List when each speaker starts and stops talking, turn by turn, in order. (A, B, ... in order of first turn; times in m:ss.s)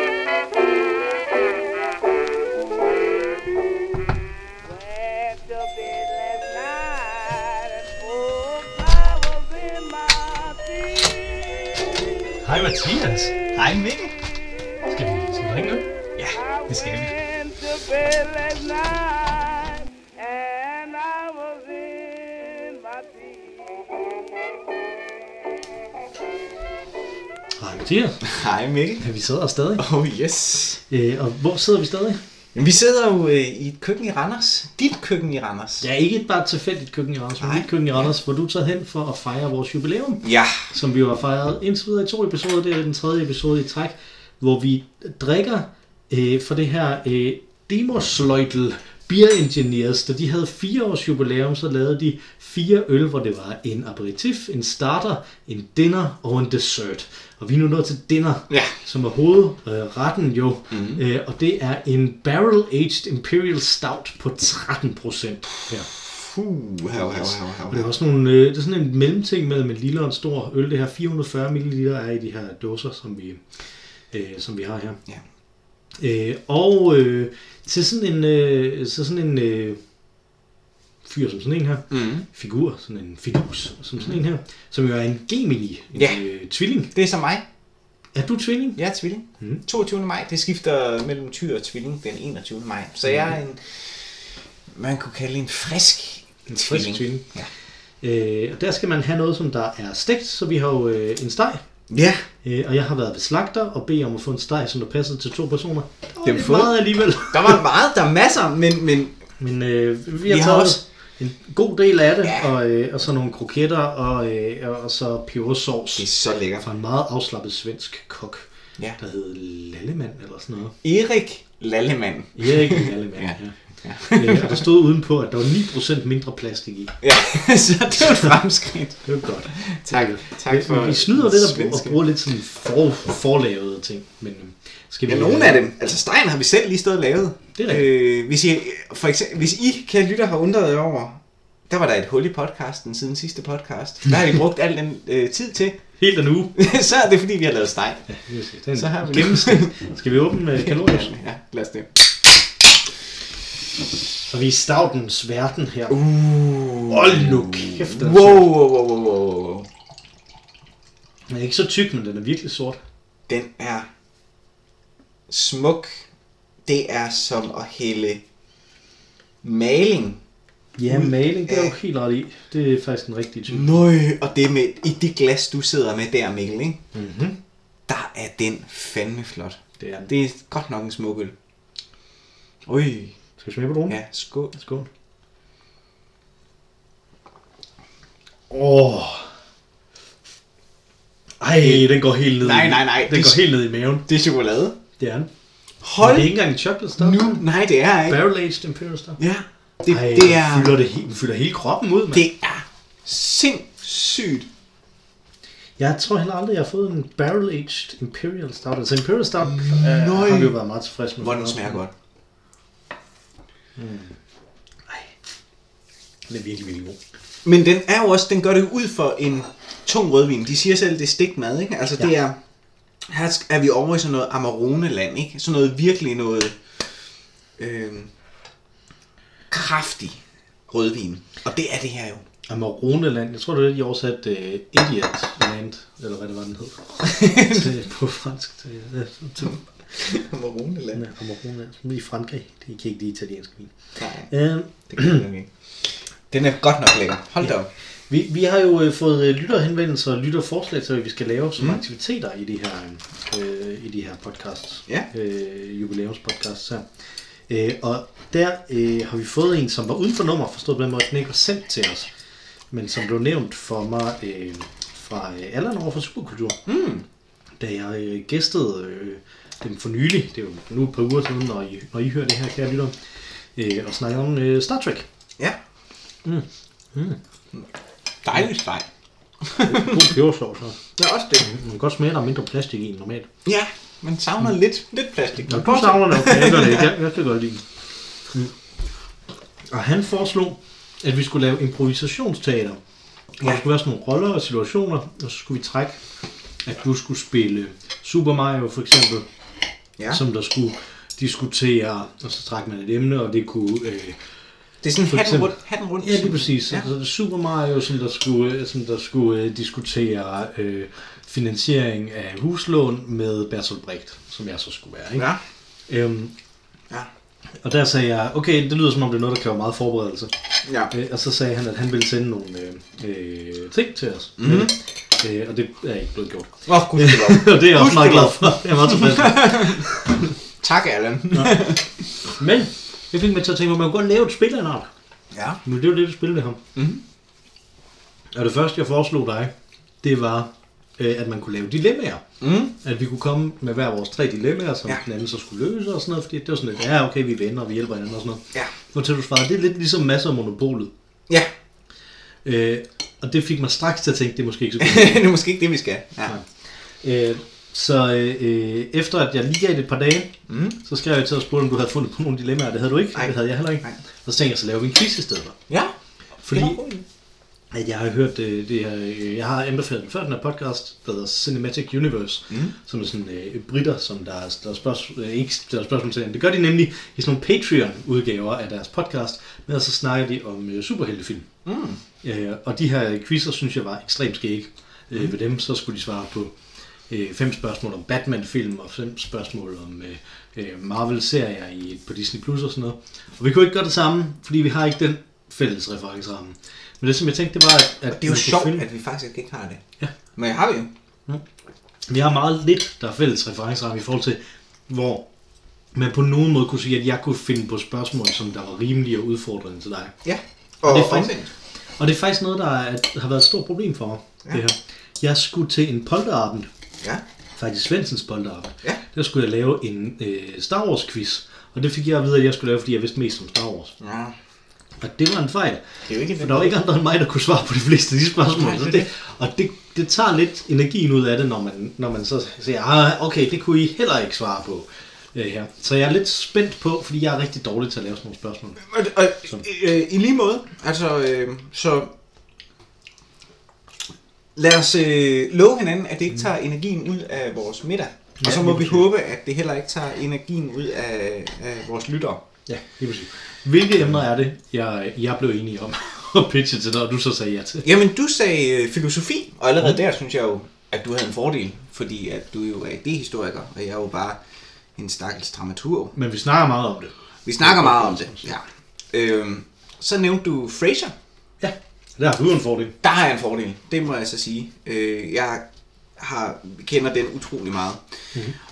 0:03.1-0:03.6 A
0:04.6-0:11.8 A
0:12.4-0:13.4 B
0:13.6-0:14.1 C
0:14.8-0:15.9 B
0:16.4-0:24.2 A
0:16.7-0:17.1 B
0:27.6-0:28.2 B
0:28.2-0:29.1 C
0:29.0-0:29.8 B
0:29.8-0:30.8 C
0:30.9-0:32.2 B
0:32.6-0:35.9 C
0:35.8-1:05.9 B
0:37.4-0:37.7 C
0:40.2-0:40.6 C
0:58.5-0:58.7 C
1:00.7-1:01.0 C
1:05.9-1:07.9 C
1:06.9-1:13.4 B
1:14.1-1:15.0 B
1:16.0-1:19.8 B
1:21.0-1:26.9 B
1:21.9-1:22.2 C
1:26.0-1:26.2 C
1:26.9-1:27.4 C
1:28.1-1:28.8 B
1:28.8-1:34.1 C
1:34.7-1:37.5 C
1:36.5-1:37.3 B
1:38.0-1:41.6 B
1:41.9-1:42.3 C
1:42.4-1:47.6 B
1:46.2-1:46.8 C
1:47.3-1:49.2 C
1:49.4-1:56.1 B
1:50.2-1:50.8 C
1:52.2-1:52.5 C
1:56.0-1:56.7 C
1:56.6-1:58.5 B
1:59.0-2:00.8 B
2:00.8-2:04.6 C
2:02.4-2:03.6 B
2:04.1-2:07.0 B
2:07.0-2:12.0 C
2:09.0-2:15.6 B
2:15.1-2:25.8 C
2:17.6-2:17.8 B
2:26.0-2:26.5 B
2:26.6-2:28.1 C
2:28.2-2:31.1 B
2:28.8-2:29.8 C
2:30.5-2:32.1 C
2:34.3-2:36.0 B
2:35.9-2:39.7 C
2:36.9-2:38.5 B
2:41.3-2:42.8 B
2:43.3-2:43.9 C
2:45.3-2:46.0 C
2:46.7-2:48.2 C
2:49.4-2:50.2 C
2:50.8-2:53.8 B
2:50.9-2:51.7 C
2:53.5-2:56.8 C
2:56.9-2:57.4 B
2:57.9-3:01.4 C
2:59.8-3:00.1 B
3:02.7-3:03.2 C
3:03.4-3:04.0 B
3:03.9-3:04.5 C
3:04.5-3:04.9 B
3:08.5-3:09.3 B
3:11.4-3:14.0 B
3:11.6-3:13.4 C
3:14.1-3:14.8 C
3:15.0-3:15.3 B
3:15.8-3:16.4 C
3:16.0-3:17.4 B
3:17.0-3:18.2 C
3:18.1-3:19.2 B
3:19.2-3:20.8 C
3:19.9-3:22.2 B
3:22.1-3:24.5 C
3:25.8-3:31.8 B
3:29.4-3:30.6 C
3:31.2-3:31.9 C
3:33.8-3:34.2 B
3:36.3-3:37.0 B
3:37.4-3:42.4 C
3:43.1-3:46.6 C
3:47.6-3:48.1 C
3:49.5-3:50.2 C
3:50.7-3:52.2 C
3:52.5-3:59.6 B
3:57.0-3:57.7 C
3:59.4-4:01.0 C
4:01.0-4:03.7 B
4:04.0-4:04.3 C
4:04.3-4:05.2 B
4:04.9-4:05.5 C
4:06.3-4:07.7 C
4:08.1-4:16.9 B
4:17.5-4:22.1 B
4:22.7-4:26.6 B
4:26.7-4:27.0 C
4:27.6-4:33.0 B
4:33.6-4:35.1 B
4:36.2-4:37.2 B
4:38.2-4:38.9 C
4:39.4-4:40.1 C
4:39.6-4:40.8 B
4:41.0-4:41.5 C
4:41.4-4:43.3 B
4:43.4-4:46.9 C
4:45.5-4:47.6 B
4:49.7-4:52.8 B
4:53.4-4:56.0 B
4:56.6-4:59.3 B
5:00.1-5:04.2 B
5:04.8-5:06.9 C
5:05.1-5:15.3 B
5:15.2-5:15.4 C
5:15.9-5:16.3 B
5:17.6-5:20.3 B
5:20.6-5:20.9 C
5:20.9-5:30.3 B
5:24.4-5:24.7 C
5:26.7-5:29.9 C
5:30.6-5:32.0 C
5:32.2-5:34.9 B
5:35.3-5:35.6 C
5:35.6-5:36.6 B
5:36.8-5:37.0 C
5:38.3-5:39.5 B
5:40.0-5:42.2 B
5:42.4-5:42.7 C
5:42.8-5:50.9 B
5:52.4-5:55.3 B
5:54.8-5:56.4 C
5:57.0-6:05.6 B
6:00.5-6:00.8 C
6:03.2-6:04.0 C
6:06.4-6:07.0 B
6:06.5-6:07.0 C
6:07.7-6:21.5 B
6:21.6-6:22.0 C
6:22.2-6:26.5 B
6:27.1-6:38.8 B
6:38.1-6:39.8 C
6:40.4-6:40.9 C
6:42.1-6:45.2 B
6:45.9-6:50.2 B
6:50.2-6:51.5 C
6:50.8-6:51.4 B
6:52.0-6:56.7 B
6:57.6-7:04.0 B
7:04.0-7:04.4 C
7:05.0-7:05.8 B
7:06.0-7:06.8 C
7:06.4-7:18.8 B
7:08.5-7:09.0 C
7:18.8-7:22.1 C
7:24.6-7:32.4 C
7:28.4-7:29.0 B
7:32.7-7:37.9 B
7:37.8-7:44.4 C
7:45.0-7:46.2 C
7:46.2-7:48.5 B
7:47.5-7:51.1 C
7:51.6-7:53.0 B
7:53.0-7:55.6 C
7:56.2-7:58.0 C